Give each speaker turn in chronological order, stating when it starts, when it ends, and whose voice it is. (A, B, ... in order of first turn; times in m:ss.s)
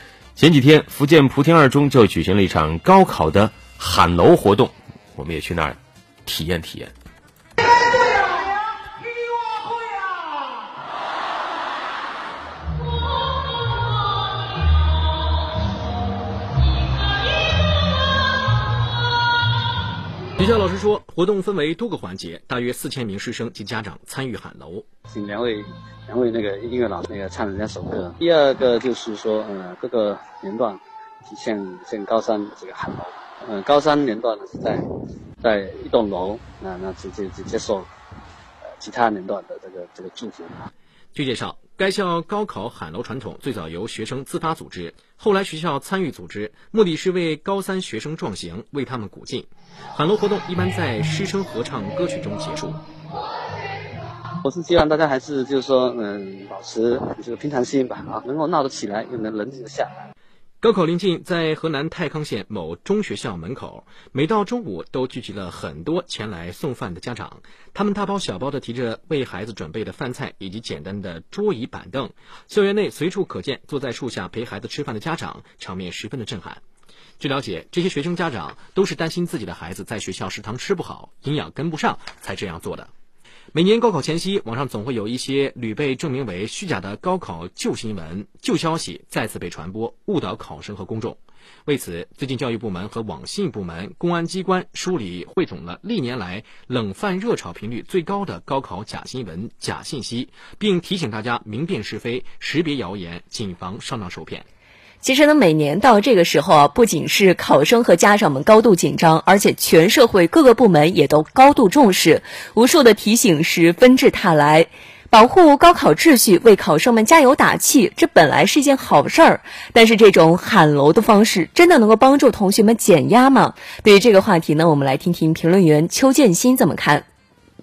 0:00.4-0:06.9 A
0:20.4-0:24.9 B
0:25.1-0:34.8 C
0:35.4-0:37.9 C
0:38.8-0:40.7 C
0:41.1-0:52.8 B
0:54.4-1:00.1 C
1:00.6-1:16.6 B
1:17.2-1:22.9 B
1:23.5-1:44.5 B
1:45.0-2:07.0 D